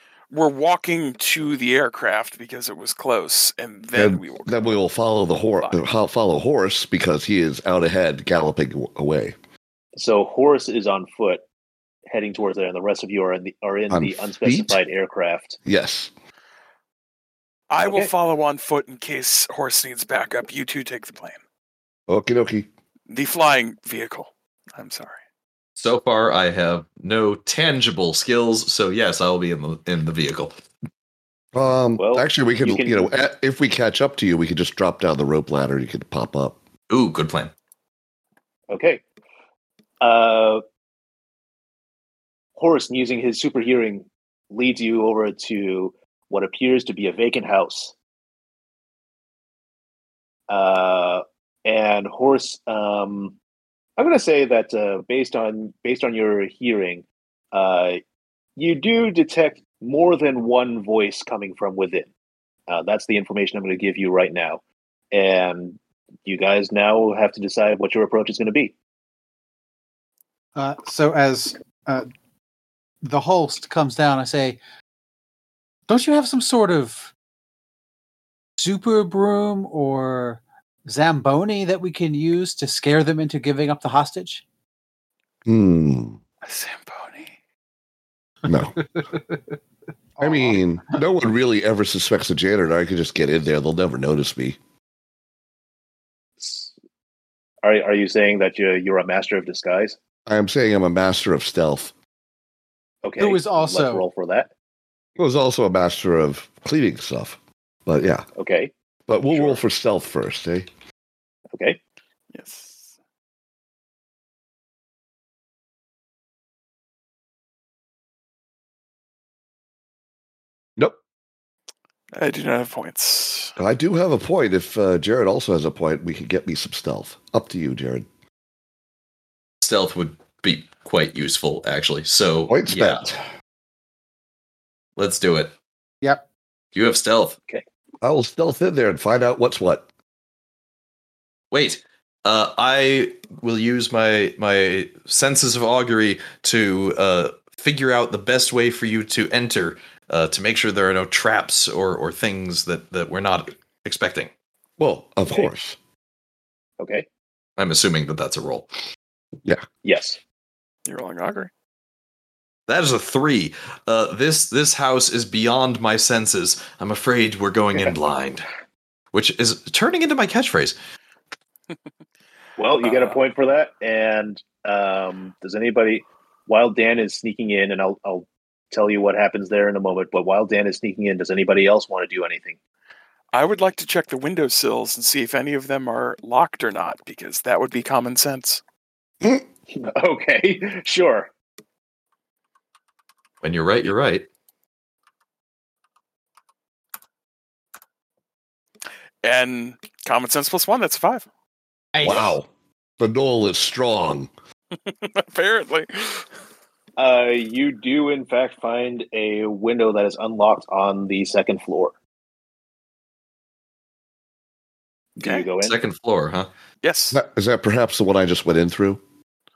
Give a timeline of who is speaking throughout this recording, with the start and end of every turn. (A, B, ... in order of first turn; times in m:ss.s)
0:00.3-0:04.7 A
0:04.0-0:09.4 B
0:10.0-0:11.4 C
0:12.1-0:15.6 C
0:13.9-0:14.8 B
0:15.6-0:16.1 B
0:17.7-0:21.4 A
0:17.8-0:18.1 C
0:22.1-0:22.7 B
0:23.1-0:25.2 A
0:25.8-0:30.5 D
0:31.5-0:36.6 B
0:32.0-0:33.1 C
0:36.9-0:37.5 D
0:38.7-0:39.0 C
0:40.0-0:40.6 C
0:42.6-0:47.9 C
0:50.5-0:53.4 C
0:54.0-0:58.0 C
0:58.6-1:02.1 C
1:02.7-1:04.6 C
1:05.1-1:08.7 C
1:10.6-1:12.1 E
1:13.0-1:14.6 E
1:15.9-1:17.1 E
1:18.6-1:24.4 E
1:25.5-1:26.2 B
1:26.4-1:27.3 A
1:28.4-1:28.8 B
1:29.0-1:29.4 E
1:30.2-1:31.0 E
1:30.2-1:34.6 B
1:36.4-1:36.7 C
1:37.6-1:40.0 C
1:40.3-1:41.9 B
1:43.0-1:44.5 C
1:43.2-1:44.0 E
1:45.2-1:48.3 B
1:48.4-1:48.7 C
1:49.1-1:50.7 B
1:49.3-1:49.6 C
1:51.5-1:51.8 C
1:52.3-1:53.0 A
2:02.1-2:03.6 A
2:03.6-2:08.1 B
2:09.6-2:13.1 D
2:12.5-2:13.2 B
2:15.0-2:15.5 D
2:16.8-2:17.4 D
2:18.0-2:19.9 B
2:21.5-2:34.3 D
2:34.8-2:35.8 B
2:36.8-2:37.1 C
2:37.6-2:38.7 D
2:39.8-2:40.2 C
2:40.9-2:41.5 A
2:42.7-2:48.5 D
2:49.1-2:50.8 D
2:52.6-3:02.6 C
2:52.9-2:53.2 A
3:03.3-3:08.6 A
3:09.7-3:11.3 C
3:13.4-3:14.3 D
3:19.2-3:21.3 A
3:22.0-3:22.3 E
3:22.0-3:22.5 B
3:23.0-3:24.3 B
3:24.8-3:26.3 A
3:27.0-3:32.0 C
3:35.2-3:35.8 C
3:35.2-3:35.5 A
3:35.6-3:36.5 D
3:36.8-3:37.2 A
3:37.1-3:39.0 B